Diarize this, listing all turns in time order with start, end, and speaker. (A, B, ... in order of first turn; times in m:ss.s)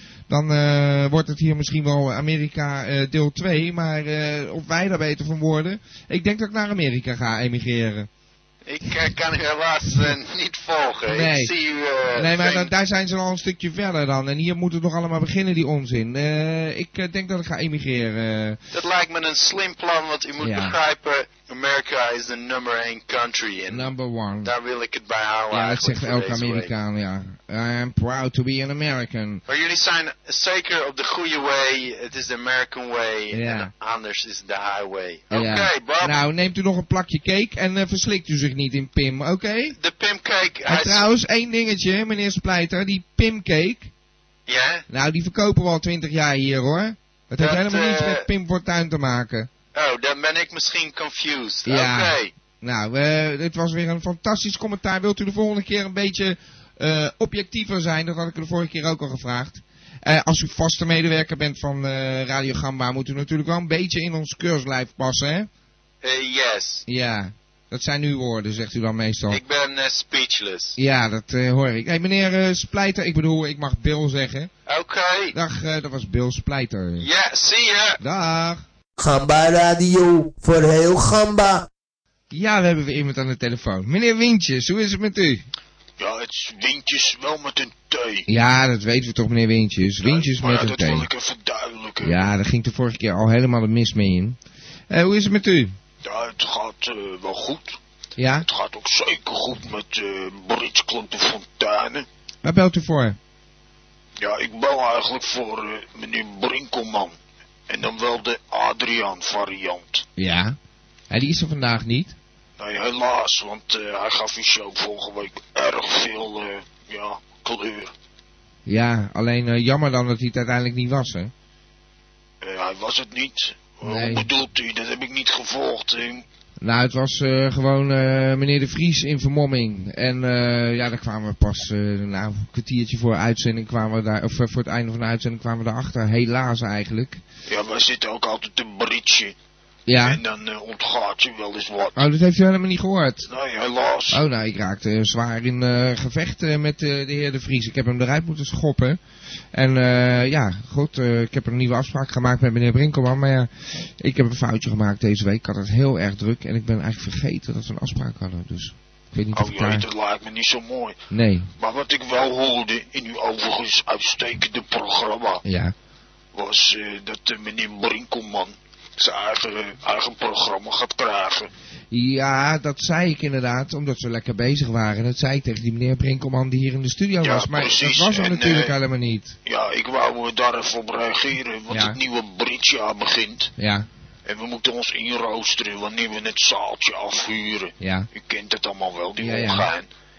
0:00.3-0:08.1 A
0:08.6-0:12.7 B
0:11.1-0:11.5 A
0:12.1-0:18.6 A
0:18.7-0:23.9 B
0:20.4-0:20.8 A
0:23.7-0:24.5 A
0:24.4-0:26.7 B
0:25.5-0:29.4 A
0:29.5-0:36.2 B
0:33.3-0:33.7 A
0:35.3-0:39.8 A
0:39.8-0:41.1 B
0:40.7-0:43.9 A
0:44.5-0:44.8 B
0:44.9-0:49.5 A
0:47.4-0:48.3 B
0:49.7-0:52.3 B
0:51.6-1:05.5 A
1:06.0-1:06.8 B
1:06.9-1:09.4 A
1:09.3-1:10.8 B
1:10.8-1:14.5 A
1:14.7-1:15.3 B
1:15.3-1:17.1 A
1:17.0-1:18.0 B
1:18.0-1:18.6 A
1:19.0-1:21.7 C
1:22.3-1:25.4 A
1:26.0-1:28.3 D
1:28.3-1:31.1 A
1:30.0-1:32.2 D
1:32.0-1:34.4 A
1:34.9-1:35.7 A
1:36.0-1:37.8 D
1:38.2-1:38.5 A
1:38.4-1:42.0 D
1:42.4-1:43.2 A
1:44.2-1:47.2 D
1:47.7-1:50.0 D
1:50.2-1:50.6 A
1:51.1-1:52.2 A
1:52.6-1:57.9 D
1:58.6-2:01.3 A
2:02.4-2:06.2 D
2:03.8-2:04.3 A
2:06.6-2:17.2 A
2:17.5-2:19.3 D
2:19.9-2:20.2 A
2:20.0-2:22.0 D
2:22.0-2:23.3 A
2:23.2-2:24.2 D
2:24.1-2:29.0 A
2:29.5-2:39.8 A
2:39.3-2:41.0 D
2:41.1-2:41.5 A
2:41.6-2:45.4 D
2:45.4-2:45.7 A
2:46.3-2:51.5 D
2:51.9-2:59.4 A
2:57.2-2:58.7 D
2:59.4-3:03.5 D
3:01.7-3:02.0 A
3:03.6-3:03.9 A
3:04.2-3:09.9 D
3:07.8-3:08.1 A
3:09.2-3:09.7 A